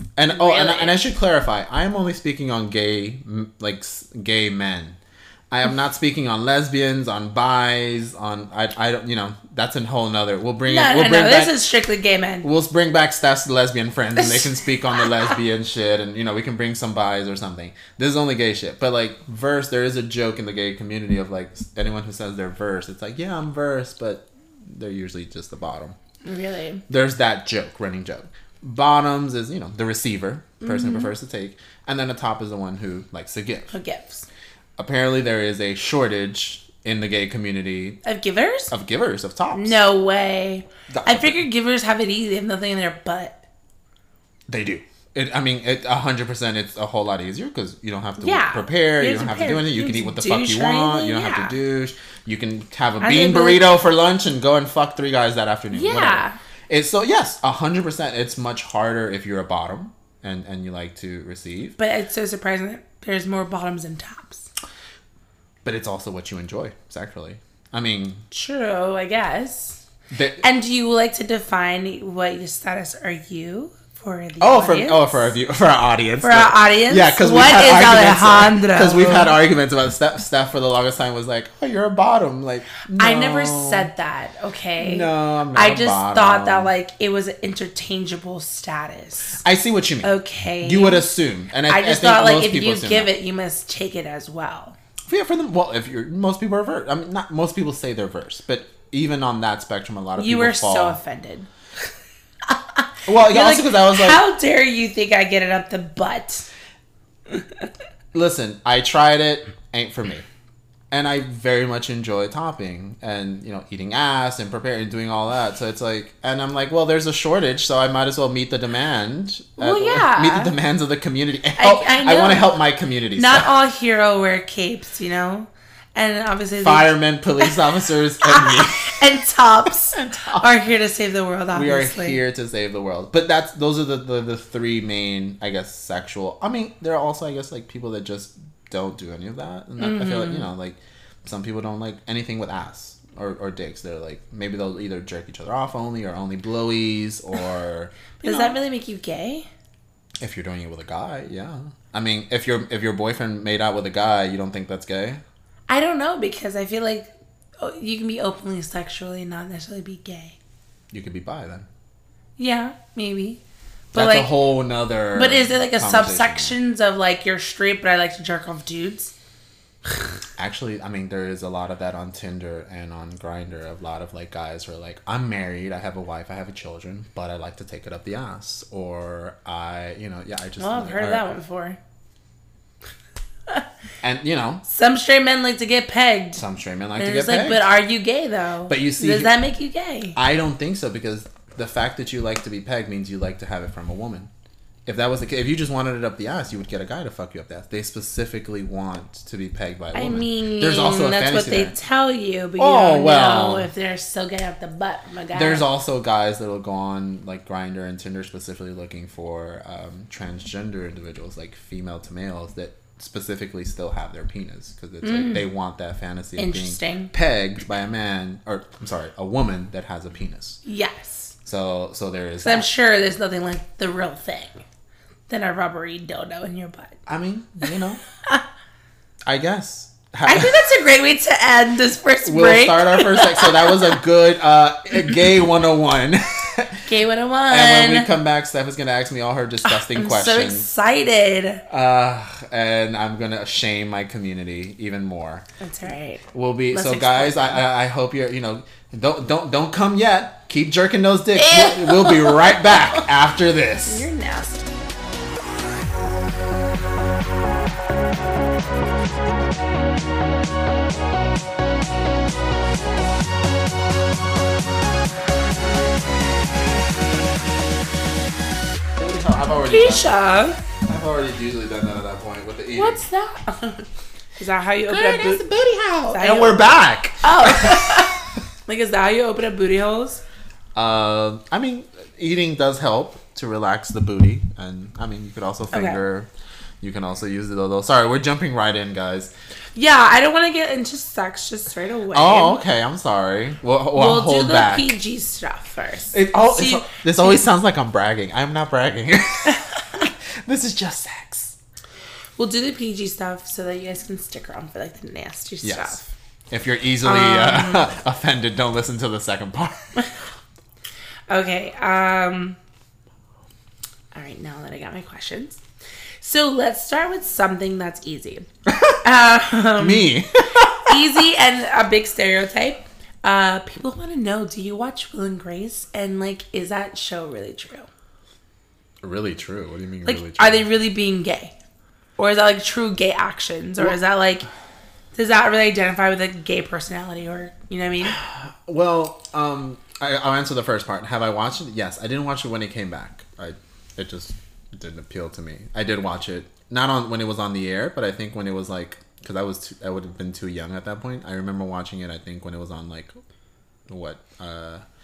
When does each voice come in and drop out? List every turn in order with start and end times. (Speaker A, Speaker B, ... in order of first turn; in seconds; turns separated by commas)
Speaker A: 0.2-5.0, Speaker B: 0.3-1.0, Speaker A: 5.5-11.6, Speaker B: 10.7-12.5, Speaker A: 12.4-25.9, Speaker B: 14.2-14.5, Speaker B: 26.2-26.8, Speaker A: 26.9-33.8, Speaker B: 30.6-31.1, Speaker B: 33.7-34.3, Speaker A: 34.8-38.0, Speaker B: 38.0-38.7, Speaker A: 38.7-39.8, Speaker B: 39.5-43.4, Speaker A: 40.9-41.4, Speaker A: 44.5-61.8, Speaker B: 48.2-51.5, Speaker B: 53.0-53.6, Speaker B: 55.7-56.4, Speaker B: 61.8-64.5, Speaker A: 65.6-68.2, Speaker B: 68.3-69.8, Speaker A: 70.1-70.4, Speaker B: 70.4-75.3, Speaker A: 74.4-83.9, Speaker B: 76.2-79.4, Speaker B: 83.0-89.4, Speaker A: 84.8-86.7, Speaker A: 89.4-93.1, Speaker B: 90.0-91.1, Speaker B: 91.7-94.8, Speaker A: 95.1-101.0, Speaker B: 100.2-101.5, Speaker B: 102.5-106.5, Speaker A: 103.0-104.2, Speaker A: 108.1-110.2, Speaker A: 110.9-123.5, Speaker B: 119.6-120.5, Speaker B: 121.6-122.5, Speaker B: 123.2-127.6, Speaker A: 126.6-129.0, Speaker B: 128.2-132.2, Speaker A: 129.9-130.5, Speaker A: 131.5-148.6, Speaker B: 139.8-140.5, Speaker B: 148.2-149.5, Speaker A: 150.2-155.2, Speaker B: 155.7-160.4, Speaker A: 160.9-161.7, Speaker B: 162.4-163.4, Speaker B: 163.9-164.3, Speaker A: 163.9-166.6, Speaker B: 165.1-169.1, Speaker A: 170.4-181.3, Speaker B: 180.6-181.8, Speaker A: 184.0-184.6, Speaker B: 184.7-186.4, Speaker A: 186.3-187.7, Speaker B: 187.0-190.2, Speaker A: 188.7-189.3, Speaker A: 190.2-194.3, Speaker A: 194.8-201.8, Speaker B: 199.9-205.7, Speaker A: 202.6-203.7, Speaker A: 205.3-220.6, Speaker B: 215.0-215.5, Speaker B: 216.4-217.1, Speaker B: 220.7-221.3, Speaker A: 221.4-222.7, Speaker B: 222.4-224.6, Speaker B: 225.3-227.0, Speaker A: 227.1-228.0, Speaker A: 229.2-230.7, Speaker B: 230.2-233.9, Speaker A: 232.2-236.8, Speaker B: 236.8-238.1, Speaker A: 237.5-240.7, Speaker B: 239.6-241.6, Speaker A: 241.7-245.4, Speaker B: 245.6-247.6, Speaker A: 246.3-254.1, Speaker B: 251.3-253.0, Speaker B: 253.8-254.7, Speaker A: 268.9-270.1, Speaker B: 269.6-270.6, Speaker A: 270.8-273.0, Speaker B: 272.7-273.9, Speaker B: 274.4-275.4, Speaker A: 274.9-278.1, Speaker B: 276.0-280.2, Speaker A: 280.7-286.3, Speaker B: 285.7-286.0, Speaker A: 286.8-289.3, Speaker B: 289.8-292.6, Speaker A: 292.1-295.0, Speaker B: 293.9-297.4, Speaker A: 296.1-301.6, Speaker B: 299.5-299.8, Speaker B: 302.4-306.0, Speaker A: 305.6-310.1, Speaker B: 307.0-307.9, Speaker B: 311.3-312.6, Speaker B: 314.1-315.6, Speaker B: 316.2-318.4, Speaker A: 318.7-319.0, Speaker B: 319.0-320.1, Speaker A: 319.8-321.0, Speaker B: 320.8-327.9, Speaker A: 329.0-330.7, Speaker B: 330.0-331.5, Speaker B: 332.2-334.5, Speaker B: 335.1-338.2, Speaker A: 338.0-353.1, Speaker A: 353.9-354.8